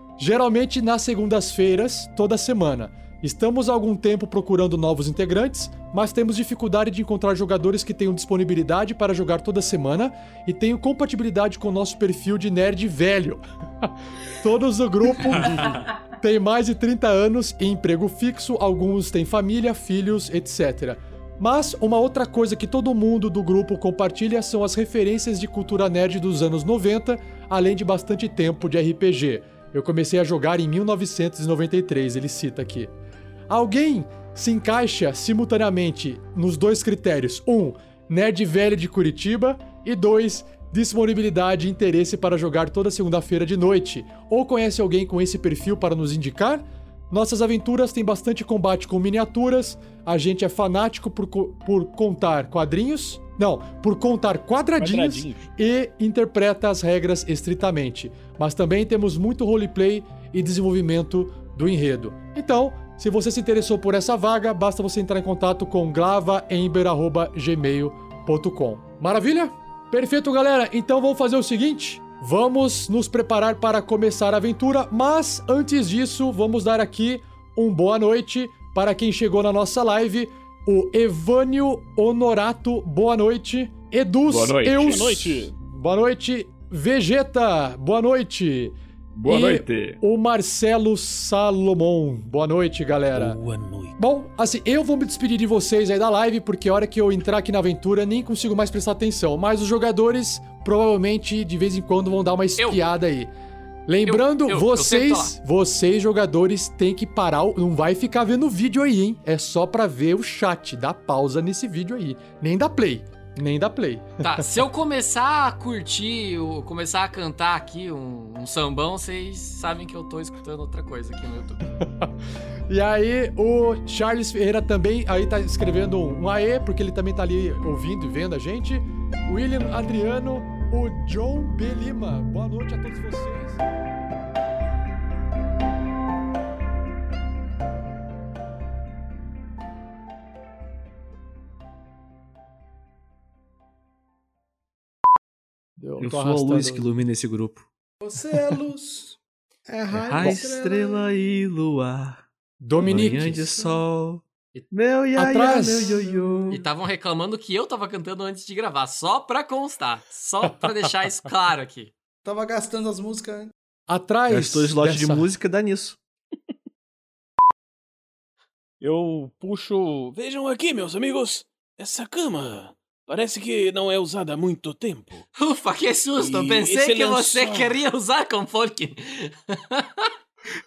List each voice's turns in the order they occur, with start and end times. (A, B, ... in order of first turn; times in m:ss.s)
0:00.2-0:32.9 A
0:15.5-0:15.8 B
0:33.5-1:28.8 A
0:54.8-0:55.5 B
1:24.3-1:25.5 B
1:29.2-1:30.0 B
1:29.3-1:33.4 A
1:33.2-1:34.0 B
1:34.0-1:43.3 A
1:43.9-1:54.4 A
1:44.1-1:45.3 C
1:54.2-2:01.6 C
2:02.7-2:13.6 A
2:25.8-2:27.0 A
2:26.0-2:27.7 D
2:28.0-2:31.2 E
2:29.9-2:32.2 D
2:32.6-2:33.5 A
2:32.8-2:36.7 D
2:35.2-2:36.0 A
2:36.5-2:41.9 C
2:42.2-2:43.5 E
2:43.9-2:45.3 A
2:44.3-2:46.0 D
2:48.8-2:55.3 B
2:55.4-3:00.1 C
2:56.2-2:57.7 B